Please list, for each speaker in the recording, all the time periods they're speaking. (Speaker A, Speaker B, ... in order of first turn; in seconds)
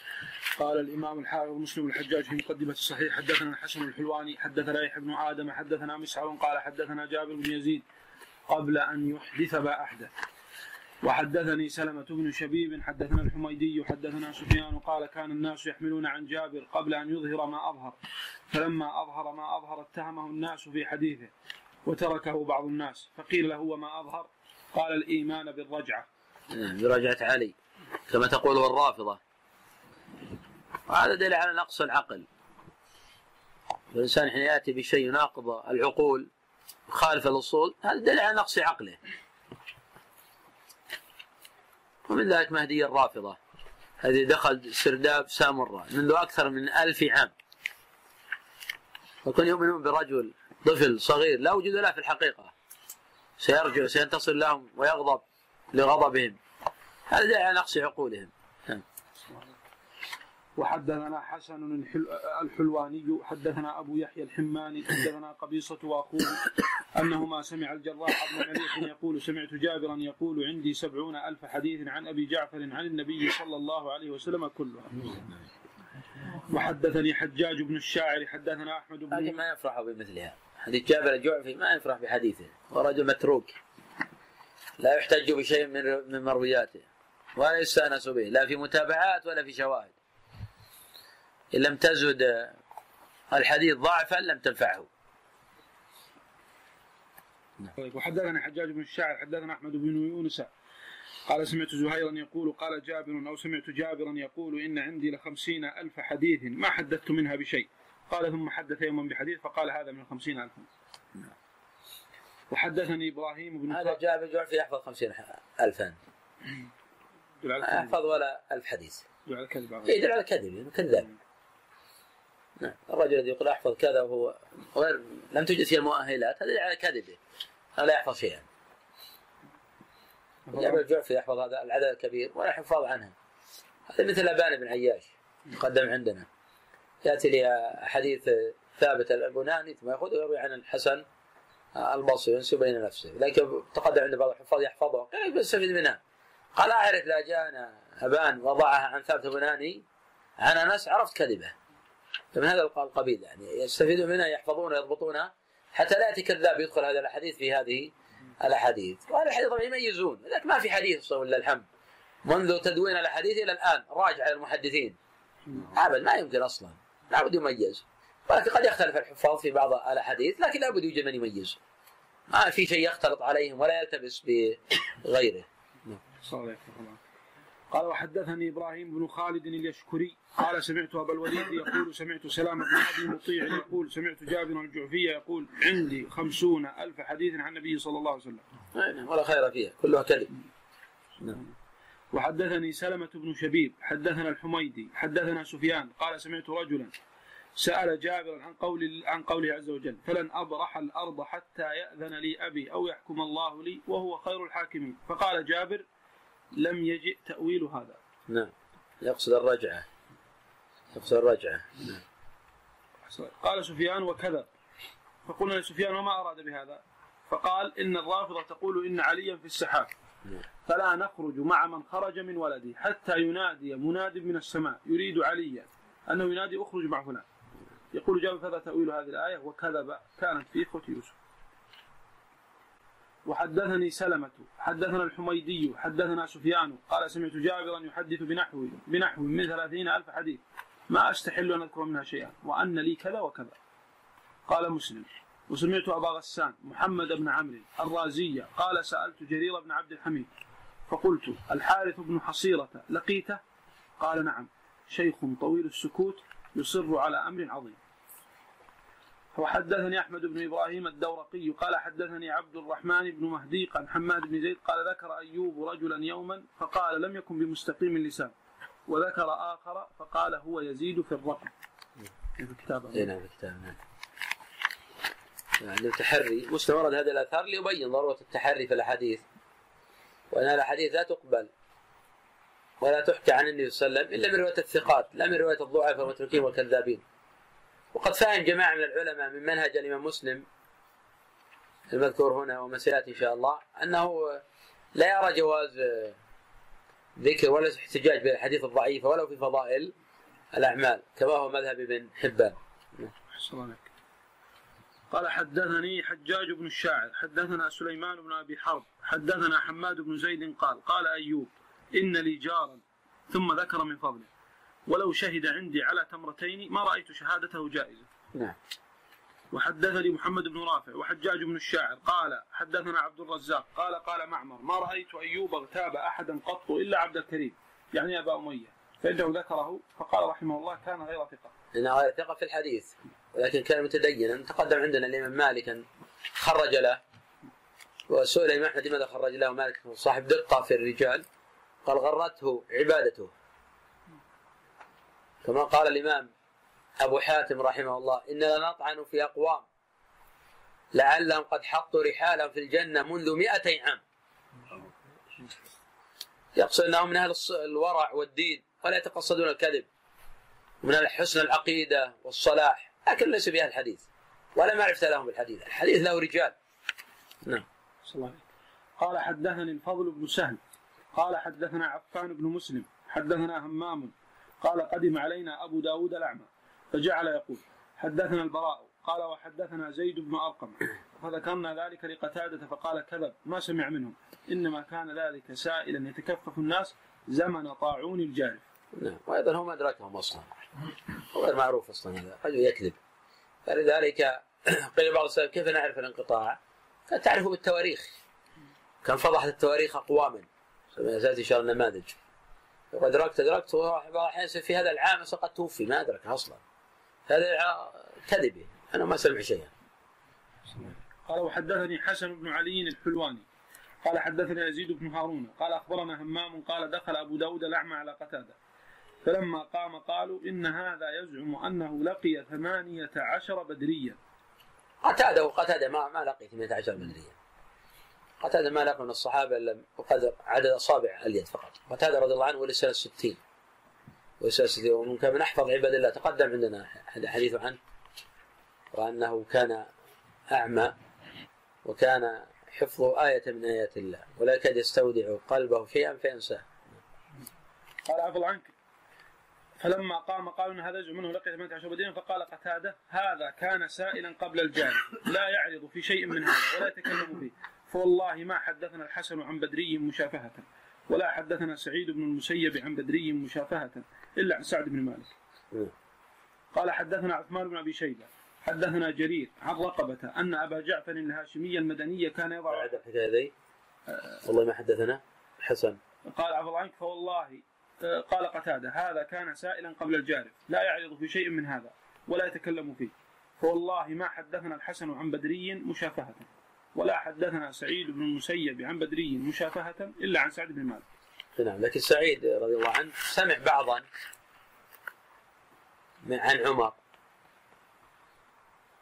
Speaker A: 0.6-7.8, 8.5-10.1, 11.0-18.0, 18.5-21.3, 21.9-26.1, 59.3-59.5, 60.6-75.3, 76.4-79.4, 97.8-100.5, 101.3-110.7, 112.5-114.0, 117.4-118.0, 119.2-120.0, 130.5-130.8, 176.2-177.0, 177.7-188.4, 192.1-196.9, 197.6-205.8, 206.5-208.0, 213.1-214.5, 215.2-219.9, 220.7-227.2, 227.9-231.1, 233.2-243.6, 244.5-250.3, 250.9-253.4, 254.0-257.8, 259.3-268.3, 268.9-271.5, 272.4-273.1, 303.3-303.9, 305.1-314.3, 314.9-318.1, 319.5-331.5, 368.0-368.4, 369.0-370.6, 371.1-388.6, 410.8-413.4, 414.0-418.6, 419.2-424.2, 448.0-448.7, 449.8-465.3, 466.7-473.0, 476.2-491.0
Speaker B: 26.5-27.5, 28.1-29.2, 30.9-32.2, 33.9-36.3, 36.9-39.0, 42.0-43.4, 44.0-47.3, 49.2-52.5, 53.4-56.4, 57.1-58.8, 79.1-83.6, 84.8-89.9, 91.5-92.6, 93.3-94.9, 113.7-116.0, 117.6-119.0, 119.8-121.1, 122.6-127.2, 127.8-128.4, 130.5-133.1, 133.9-136.3, 137.0-141.0, 141.7-146.0, 146.6-149.8, 150.4-151.5, 152.3-161.7, 162.2-164.9, 165.6-171.6, 172.3-176.0, 188.7-190.3, 208.3-209.9, 210.9-212.0, 272.9-273.8, 275.6-279.2, 280.3-281.5, 282.8-287.0, 287.9-290.4, 291.9-294.4, 294.9-296.1, 297.2-299.9, 300.5-303.1, 331.7-335.8, 336.4-337.0, 338.1-341.2, 341.8-343.3, 345.4-346.3, 347.0-349.6, 350.9-354.0, 356.6-359.9, 360.8-366.5, 388.9-390.6, 391.3-393.0, 393.6-398.1, 399.0-402.1, 402.9-406.6, 407.3-409.7, 425.0-427.3, 428.4-433.4, 434.4-437.8, 438.9-439.9, 440.5-440.9, 441.8-446.6, 472.7-473.5, 474.4-476.0, 491.6-494.1, 496.2-497.0